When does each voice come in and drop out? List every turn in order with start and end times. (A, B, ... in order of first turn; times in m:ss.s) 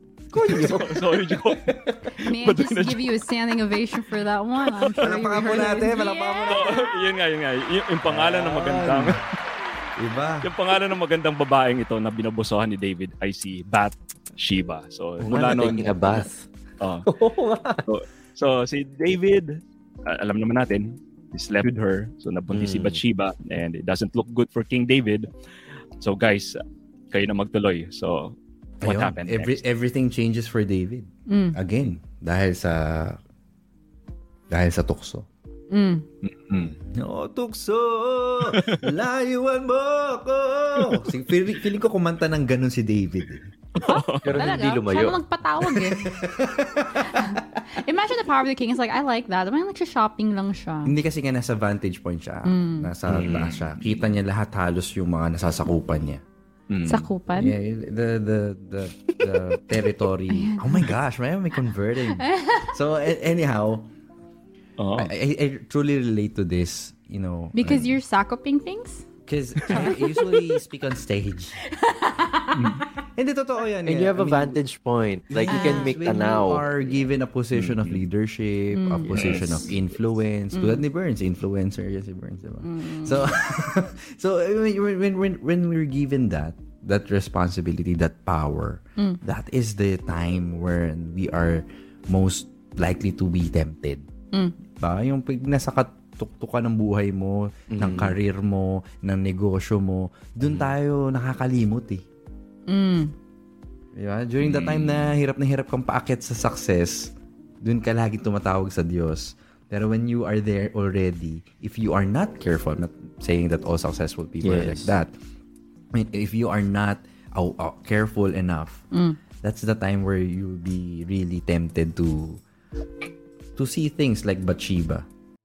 0:00.3-0:01.0 A
0:00.4-0:03.1 B
0:00.5-0:00.9 C
0:02.2-0:06.9 D
0:05.0-0:06.7 A
0:06.5-0:09.2 B
0:08.0-0:09.2 A
0:10.0-0:10.5 A
0:10.4-0:16.3 B
0:15.2-0:16.4 C
0:16.8-0:17.1 B
0:17.1-0:17.8 C
0:17.8-0:25.3 B
0:22.5-0:23.0 C
0:26.0-0:26.6 B
0:27.1-0:29.6 B
0:28.8-0:33.2 A
0:31.3-0:31.6 D
0:34.5-0:35.3 A
0:35.7-0:36.1 D
0:36.2-0:36.8 B
0:36.9-0:43.5 A
0:38.5-0:38.9 B
0:43.8-0:44.6 B
0:43.8-0:46.2 D
0:44.2-0:45.2 C
0:45.6-0:47.6 A
0:47.0-0:50.9 D
0:50.8-0:56.2 A
0:52.5-0:52.9 D
0:53.1-0:53.5 C
0:53.2-0:53.8 B
0:56.7-0:57.1 B
0:56.8-0:57.6 D
0:57.3-1:03.9 A
1:00.3-1:00.9 D
1:02.2-1:02.7 D
1:04.8-1:05.1 B
1:05.0-1:08.0 A
1:07.5-1:09.0 D
1:09.2-1:11.6 A
1:09.6-1:10.5 D
1:11.7-1:12.9 D
1:13.1-1:14.6 A
1:13.8-1:16.9 C
1:15.3-1:34.0 A
1:15.5-1:15.9 D
1:17.5-1:18.0 B
1:18.7-1:19.2 D
1:19.1-1:19.7 B
1:20.5-1:20.8 D
1:22.6-1:23.2 D
1:34.8-1:42.0 A
1:37.7-1:38.2 C
1:40.4-1:40.7 C
1:42.7-1:43.1 D
1:44.0-1:47.1 A
1:44.4-1:45.1 B
1:47.6-1:55.1 A
1:54.4-1:54.9 C
1:55.9-1:58.8 A
1:58.9-1:59.2 D
1:59.4-2:02.4 A
2:03.6-2:05.0 A